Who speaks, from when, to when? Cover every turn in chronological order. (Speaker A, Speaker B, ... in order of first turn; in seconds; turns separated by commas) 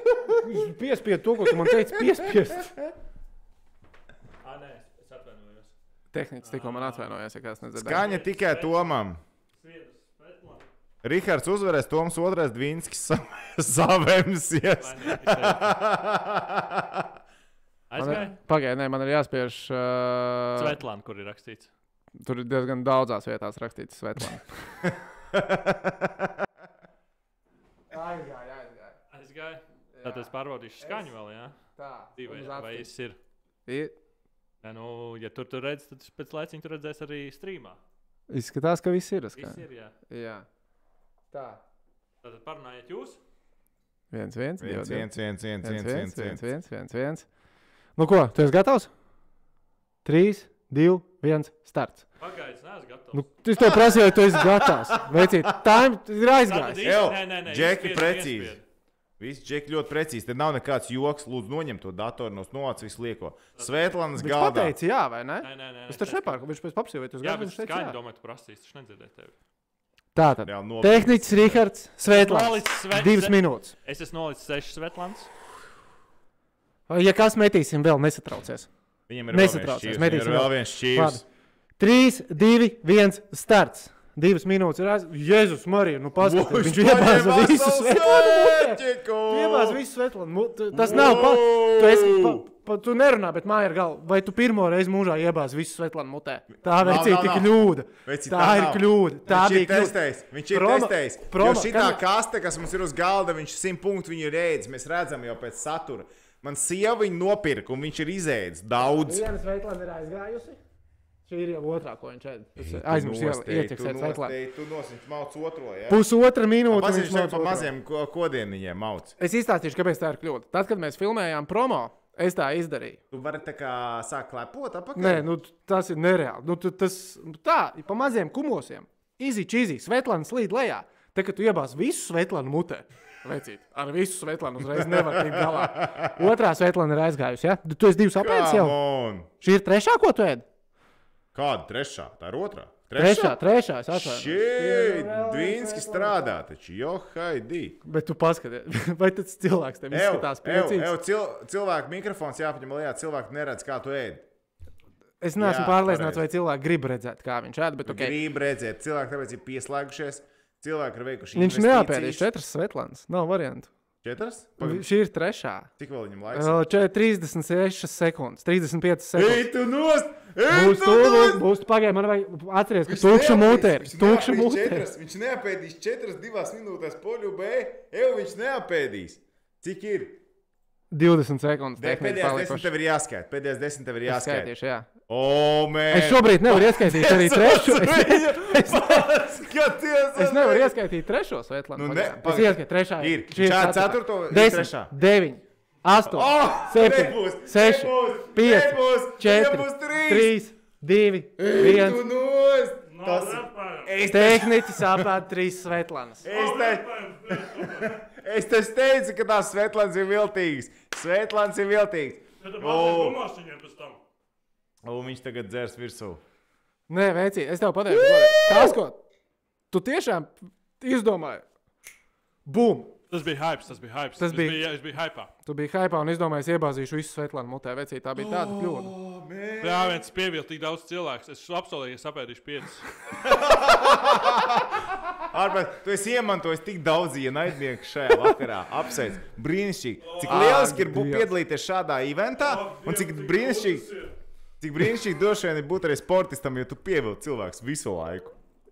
Speaker A: 0.3-2.7, Speaker B: 4.4-5.7, Speaker A: 6.1-8.0, Speaker B: 6.4-7.2, Speaker C: 7.8-9.2, Speaker B: 7.9-8.9, Speaker B: 9.5-10.7, Speaker C: 11.0-17.1, Speaker B: 14.8-15.8, Speaker B: 17.9-18.4, Speaker A: 18.0-20.8, Speaker B: 20.6-21.7, Speaker A: 22.1-24.7, Speaker C: 25.3-26.3, Speaker A: 27.9-29.0, Speaker B: 29.1-31.6, Speaker A: 29.9-31.1, Speaker A: 31.8-32.9, Speaker B: 32.1-33.2, Speaker A: 33.6-33.9, Speaker B: 34.6-37.8, Speaker A: 38.3-40.5, Speaker B: 39.3-39.9, Speaker A: 41.3-41.6, Speaker B: 42.2-43.2, Speaker A: 44.1-45.1, Speaker C: 44.6-46.4, Speaker A: 45.6-47.3, Speaker A: 48.0-48.9, Speaker A: 50.0-52.0, Speaker B: 52.2-53.3, Speaker A: 53.1-56.9, Speaker C: 53.6-55.4, Speaker B: 56.5-58.6, Speaker C: 56.8-58.6, Speaker C: 59.2-64.7, Speaker A: 64.2-68.0, Speaker B: 65.4-66.4, Speaker B: 67.2-69.3, Speaker A: 70.1-73.7, Speaker C: 70.4-71.6, Speaker B: 72.0-75.3, Speaker A: 76.9-78.7, Speaker C: 79.1-81.2, Speaker A: 79.3-81.2, Speaker A: 81.8-100.0, Speaker C: 86.2-89.8, Speaker C: 90.7-92.4, Speaker C: 96.6-109.3, Speaker A: 100.5-102.0, Speaker A: 108.9-110.6, Speaker A: 111.3-114.3, Speaker C: 112.5-116.0, Speaker A: 115.9-117.7, Speaker C: 116.7-119.1, Speaker A: 119.2-123.0, Speaker C: 123.1-125.2, Speaker A: 125.0-138.8, Speaker C: 134.8-136.2, Speaker C: 138.1-139.3, Speaker A: 139.4-140.4, Speaker C: 141.3-143.4, Speaker A: 143.0-146.3, Speaker C: 143.9-147.8, Speaker A: 147.8-150.9, Speaker C: 149.9-154.3, Speaker A: 155.2-158.2, Speaker C: 155.4-156.2, Speaker C: 157.8-162.2, Speaker A: 161.3-163.7, Speaker C: 164.0-164.8, Speaker A: 164.6-165.7, Speaker C: 165.8-166.6, Speaker A: 166.3-169.5, Speaker C: 169.2-171.4, Speaker A: 170.4-174.9, Speaker C: 172.8-180.2, Speaker A: 180.9-182.7, Speaker C: 181.8-184.5, Speaker A: 184.1-184.9, Speaker C: 185.1-190.8, Speaker A: 185.9-189.0, Speaker A: 190.1-202.0, Speaker C: 191.8-194.9, Speaker C: 196.0-200.3, Speaker C: 201.4-205.1, Speaker B: 202.9-204.0, Speaker A: 204.0-206.3, Speaker C: 206.2-213.2, Speaker B: 206.3-208.0, Speaker B: 212.4-214.0, Speaker C: 214.8-216.2, Speaker A: 216.9-219.0, Speaker C: 217.9-218.7, Speaker A: 219.7-221.5, Speaker A: 222.4-222.9, Speaker B: 223.1-225.3, Speaker A: 224.2-224.6, Speaker A: 225.4-228.9, Speaker C: 228.1-230.1, Speaker B: 229.6-232.9, Speaker C: 233.2-243.9, Speaker B: 240.1-240.6, Speaker A: 240.2-241.3, Speaker B: 242.4-244.1, Speaker C: 244.6-248.3